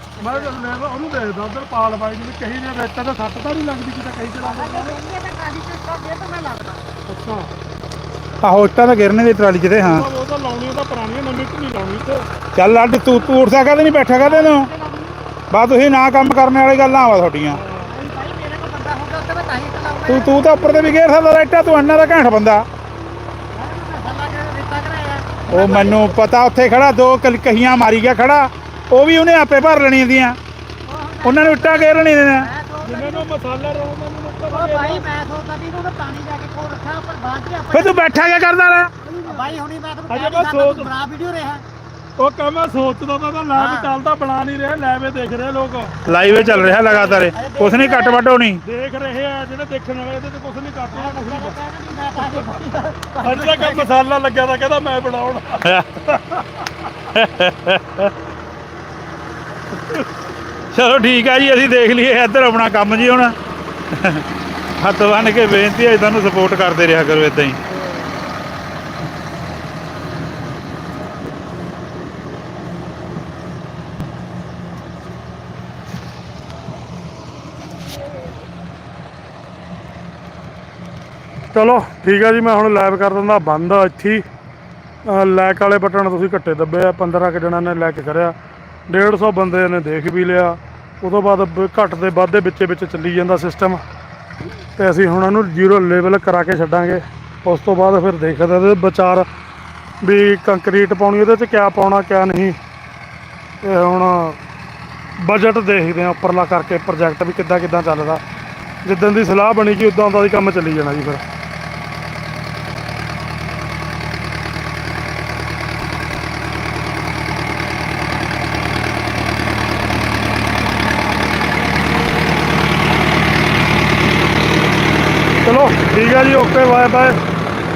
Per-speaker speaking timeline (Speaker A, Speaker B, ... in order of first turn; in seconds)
Speaker A: 0.2-5.0, 7.1-7.5, 9.8-12.3, 17.5-17.9, 32.8-35.0, 40.1-40.9, 42.2-47.1, 48.6-51.6, 53.2-56.6, 81.5-84.2, 85.1-88.3, 88.9-93.8, 94.8-99.3, 100.0-102.6, 103.6-104.4, 105.2-108.2, 108.8-111.2, 125.5-127.2
Speaker B: 0.2-0.6, 4.4-6.9, 14.1-15.2, 17.8-20.4, 23.5-26.0, 30.9-33.3, 34.5-38.0, 39.2-41.6, 43.5-43.9, 46.7-48.2, 50.9-53.9
Speaker C: 8.4-10.1, 12.5-14.7, 15.5-17.6, 20.1-22.7, 25.5-30.4, 31.2-32.5, 37.7-38.9, 46.0-48.6, 55.6-56.1, 57.1-58.1, 60.7-63.4, 63.9-64.2, 64.8-67.6